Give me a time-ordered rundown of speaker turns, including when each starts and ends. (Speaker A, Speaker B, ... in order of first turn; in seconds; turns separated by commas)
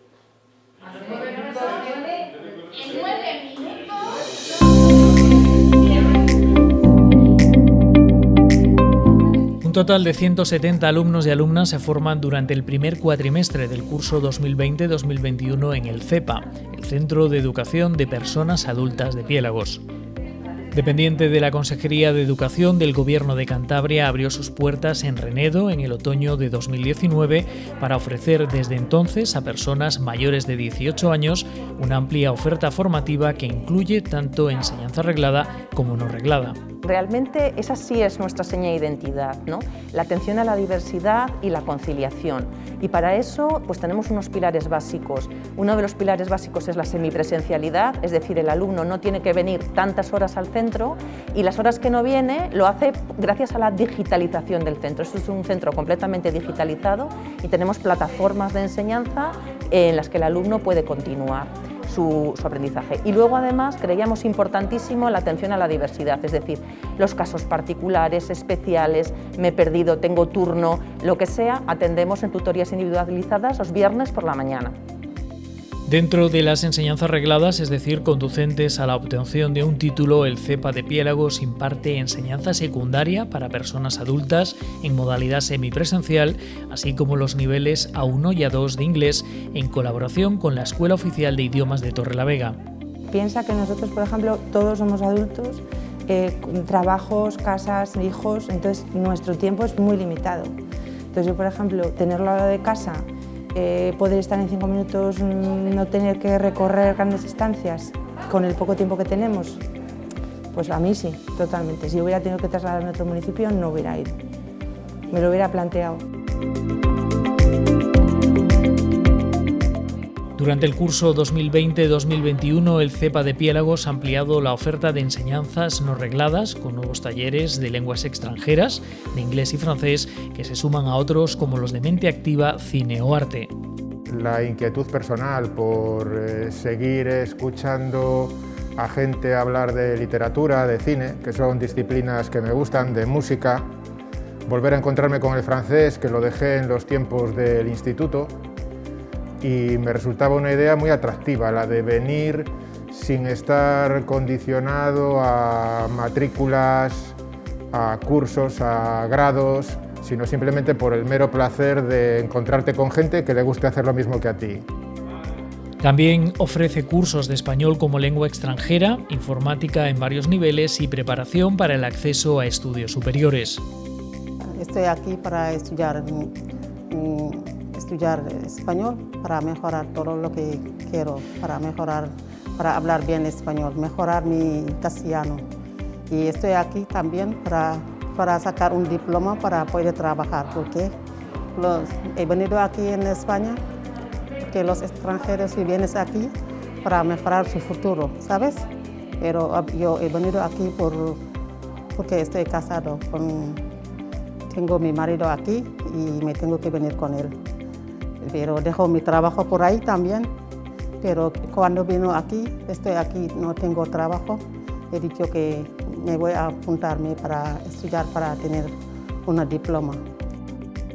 Speaker A: 1.0-4.1, Speaker B: 9.6-19.8, Speaker B: 20.7-36.6, Speaker C: 36.8-74.8, Speaker B: 75.8-92.6, Speaker D: 93.1-100.5, Speaker D: 101.1-109.6, Speaker D: 110.5-114.1, Speaker D: 115.1-116.0, Speaker B: 120.3-133.5, Speaker E: 134.1-143.6, Speaker E: 144.5-148.3, Speaker E: 149.4-157.2, Speaker E: 157.7-164.6, Speaker B: 165.8-173.6, Speaker F: 174.5-176.3, Speaker F: 176.9-185.4, Speaker F: 186.1-190.9, Speaker F: 191.5-193.6, Speaker F: 194.4-196.3, Speaker F: 196.8-198.6, Speaker F: 199.2-201.2, Speaker F: 201.9-203.6, Speaker F: 204.5-207.3, Speaker F: 208.2-210.3, Speaker F: 211.0-218.7, Speaker F: 219.2-220.0